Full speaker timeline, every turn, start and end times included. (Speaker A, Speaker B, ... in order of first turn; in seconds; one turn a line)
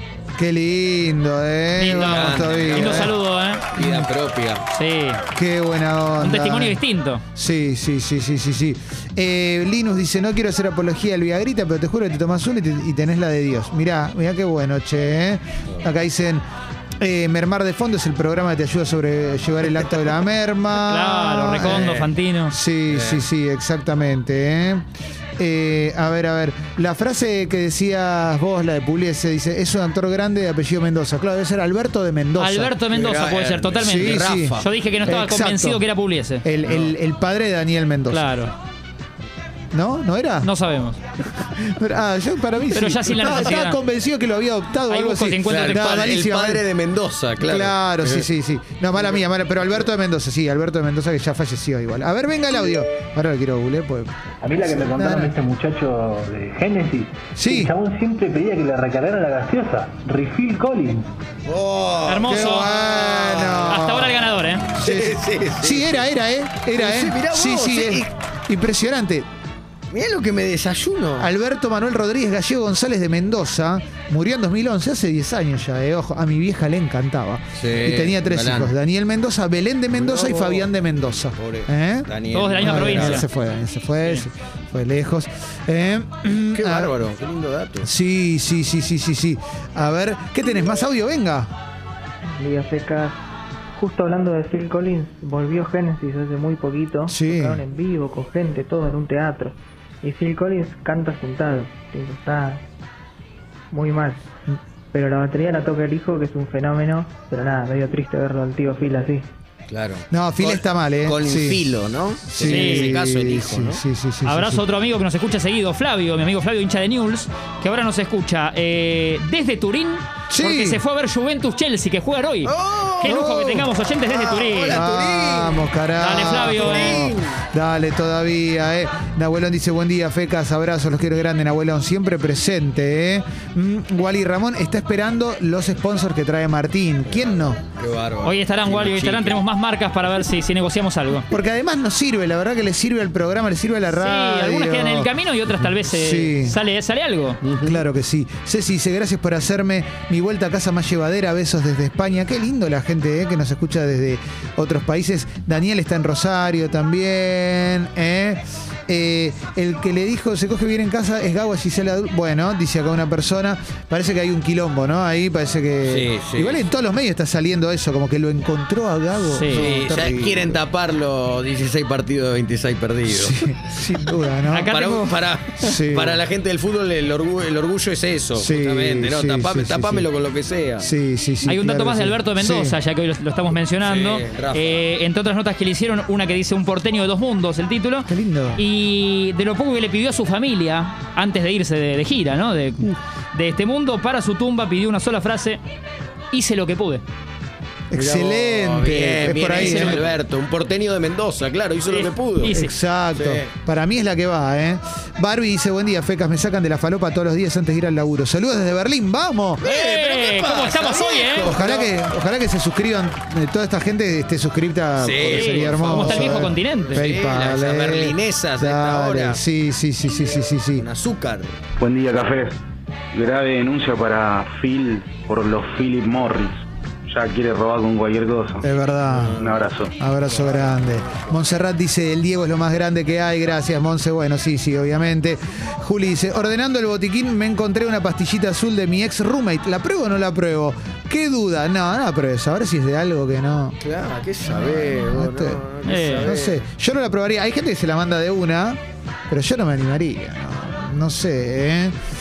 Speaker A: 0.4-3.1
Speaker B: 1.8-3.7
Speaker C: 1.8-3.2
Speaker C: 3.7-4.6
Speaker A: 3.8-4.1
Speaker B: 4.7-5.2
Speaker A: 5.3-6.8
Speaker B: 6.2-7.2
Speaker A: 7.3-16.4
Speaker A: 17.0-24.9
Speaker B: 20.8-22.5
Speaker C: 22.9-23.2
Speaker A: 25.4-32.8
Speaker B: 32.4-36.4
Speaker C: 32.9-34.7
Speaker A: 33.8-35.9
Speaker A: 36.4-38.3
Speaker C: 36.7-36.9
Speaker B: 38.1-38.5
Speaker A: 39.7-40.5
Speaker B: 40.4-41.0
Speaker A: 41.3-46.7
Speaker B: 42.7-43.8
Speaker C: 43.2-43.5
Speaker B: 44.9-46.0
Speaker C: 45.5-48.3
Speaker A: 47.4-54.1
Speaker D: 54.4-61.1
Speaker A: 54.7-55.4
Speaker A: 57.4-57.7
Speaker C: 61.5-63.8
Speaker B: 62.1-62.9
Speaker A: 62.3-64.2
Speaker B: 63.7-64.7
Speaker A: 64.8-69.3
Speaker C: 64.8-66.1
Speaker C: 66.8-68.1
Speaker C: 69.9-71.3
Speaker A: 71.2-87.0
Speaker C: 77.6-78.7
Speaker C: 80.0-80.7
Speaker C: 81.4-83.2
Speaker B: 82.3-83.3
Speaker C: 86.3-87.9
Speaker A: 87.8-91.5
Speaker E: 92.4-93.2
Speaker E: 93.7-102.6
Speaker A: 97.1-97.6
Speaker E: 103.7-104.3
Speaker E: 104.9-109.3
Speaker C: 109.7-113.8
Speaker A: 110.1-114.6
Speaker B: 112.4-113.0
Speaker B: 114.3-124.8
Speaker A: 120.3-120.8
Speaker C: 122.5-123.2
Speaker A: 123.0-123.7
Speaker C: 124.0-125.7
Speaker A: 124.7-137.6
Speaker B: 126.0-127.1
Speaker C: 126.2-127.4
Speaker C: 137.1-139.4
Speaker B: 138.2-141.3
Speaker A: 141.3-145.1
Speaker B: 143.9-147.4
Speaker A: 145.7-146.6
Speaker C: 147.4-147.8
Speaker A: 147.6-170.6
Speaker C: 165.9-166.6
Speaker B: 169.3-169.7
Speaker C: 169.5-173.4
Speaker A: 173.1-174.8
Speaker B: 174.5-175.2
Speaker C: 174.7-180.9
Speaker A: 175.6-176.2
Speaker A: 178.3-180.1
Speaker A: 180.8-182.8
Speaker B: 181.4-195.6
Speaker C: 183.8-184.8
Speaker A: 188.1-188.6
Speaker B: 196.3-197.0
Speaker A: 197.9-200.0
Speaker C: 197.9-202.6
Speaker B: 199.5-200.1
Speaker B: 201.9-202.7
Speaker A: 202.5-209.6
Speaker C: 203.2-203.5
Speaker C: 209.6-211.9
Speaker B: 209.6-211.6
Speaker A: 211.4-220.9
Speaker C: 215.0-219.4
Speaker B: 215.3-217.1
Speaker C: 220.8-221.5
Speaker F: 221.8-222.6
Speaker F: 223.1-228.7
Speaker A: 228.6-243.8
Speaker C: 228.9-229.7
Speaker F: 229.4-229.9
Speaker C: 230.3-231.4
Speaker C: 243.8-246.6
Speaker A: 244.4-248.8
Speaker B: 245.8-246.3
Speaker A: 249.3-251.9